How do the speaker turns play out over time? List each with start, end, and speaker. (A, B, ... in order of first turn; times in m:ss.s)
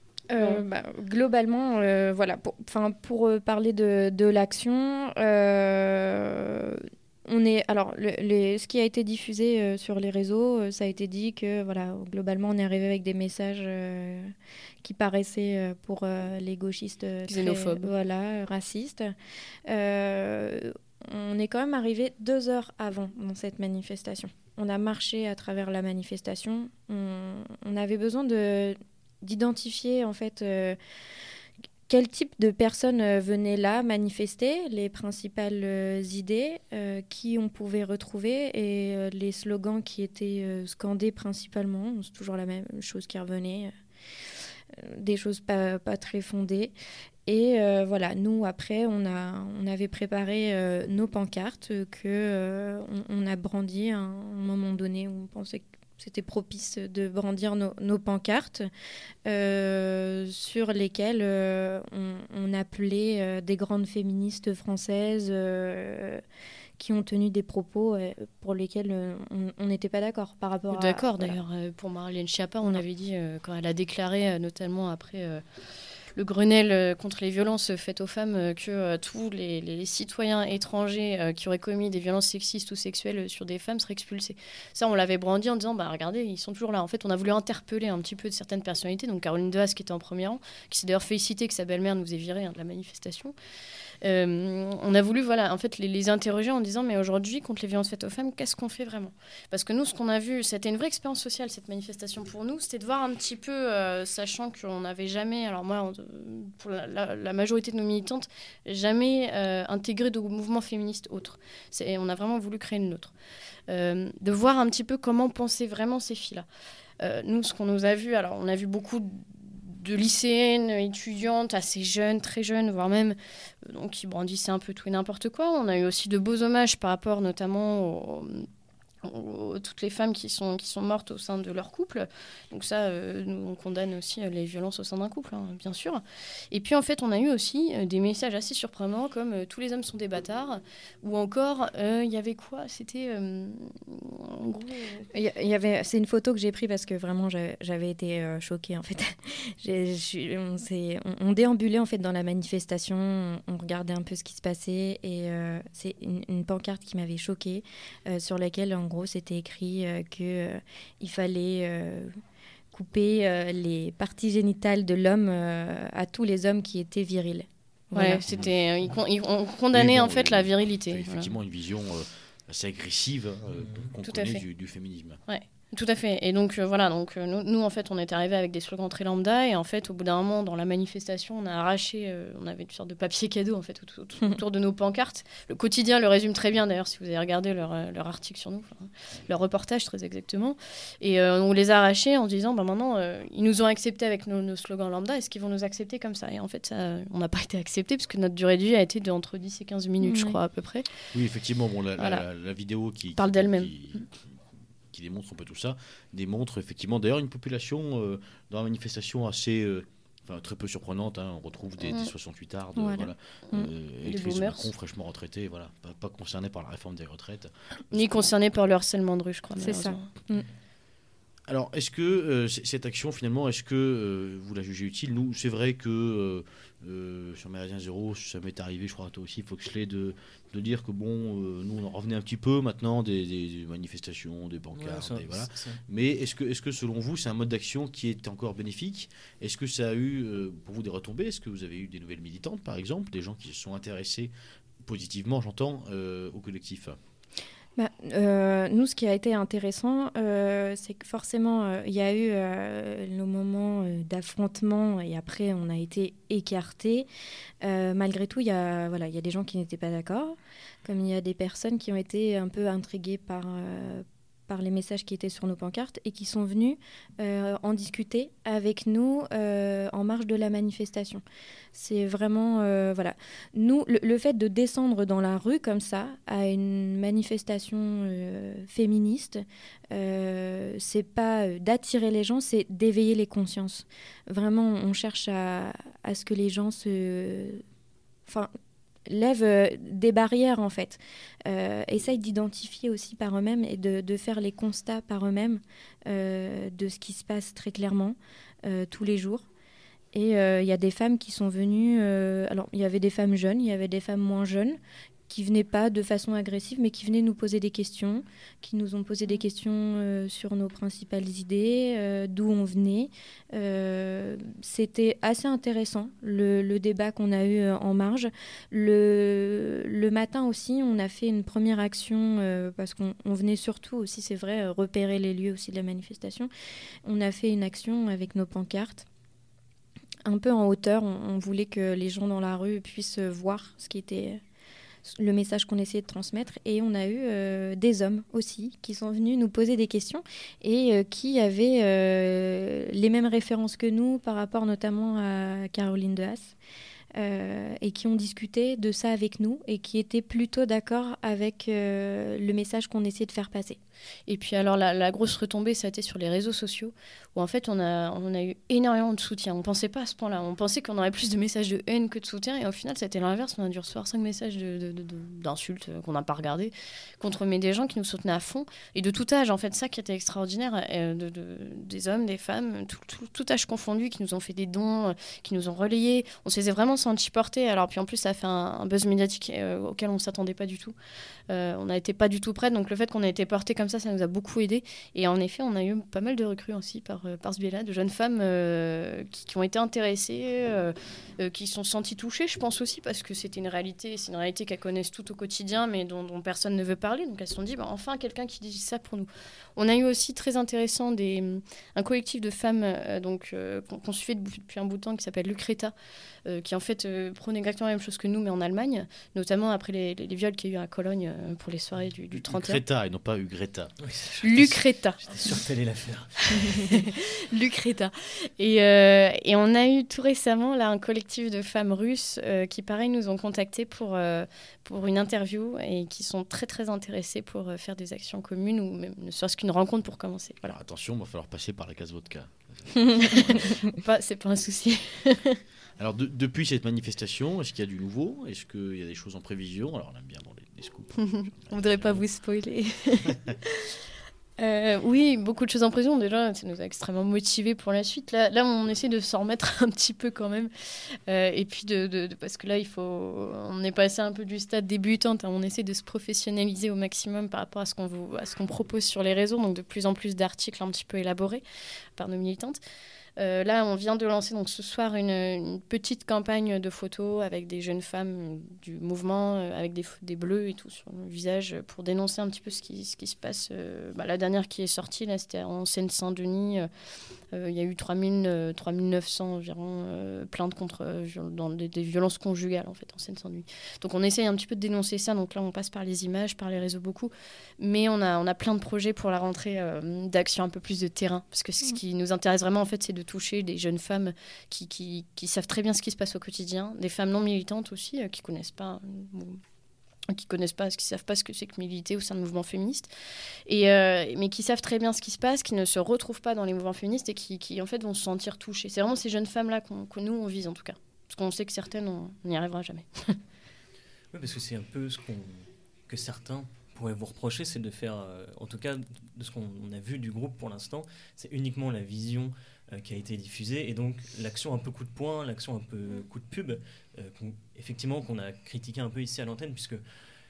0:00.3-0:19.1 A
0:00.4-0:00.6 B
0:17.3-0:17.9 B
0:19.7-0:30.8 A
0:31.9-0:43.7 A
0:44.7-0:46.7 A
0:47.3-0:58.7 A
0:59.2-1:06.2 A
1:06.8-1:11.4 A
1:10.7-1:15.4 B
1:16.2-1:33.4 B
1:34.0-1:53.1 B
1:53.7-1:56.5 B
1:57.0-2:08.5 B
2:09.0-2:25.1 B
2:25.1-2:42.2 A
2:42.7-2:48.2 A
2:47.9-2:51.3 B
2:49.7-2:55.2 C
2:53.5-2:53.9 D
2:54.0-2:54.4 B
2:55.3-3:20.9 B
3:20.0-3:20.4 A
3:21.1-3:24.1 C
3:22.0-3:22.2 B
3:23.2-3:24.0 B
3:24.9-3:38.3 C
3:32.8-3:33.7 A
3:34.0-3:34.7 B
3:37.9-3:40.1 B
3:39.6-3:40.5 A
3:41.5-4:07.0 C
3:54.7-3:55.8 D
4:07.8-4:17.1 A
4:17.6-4:31.2 A
4:31.7-4:47.6 A
4:49.1-4:59.5 A
5:00.1-5:26.5 A
5:27.0-5:29.1 A
5:30.3-5:34.4 A
5:35.0-5:46.6 A
5:47.2-5:53.8 A
5:54.3-6:21.0 B
6:21.5-6:45.9 B
6:46.5-6:52.8 B
6:52.4-6:53.9 C
6:54.0-6:57.0 D
6:54.4-6:55.5 B
6:56.5-7:10.8 B
7:10.7-7:13.9 C
7:13.2-7:15.6 B
7:16.0-7:22.2 C
7:21.2-7:24.0 B
7:24.6-7:41.6 B
7:42.2-7:42.8 B
7:43.4-7:56.9 B
7:57.5-8:19.6 B
8:20.3-8:23.1 B
8:23.7-8:33.4 B
8:34.3-8:50.0 D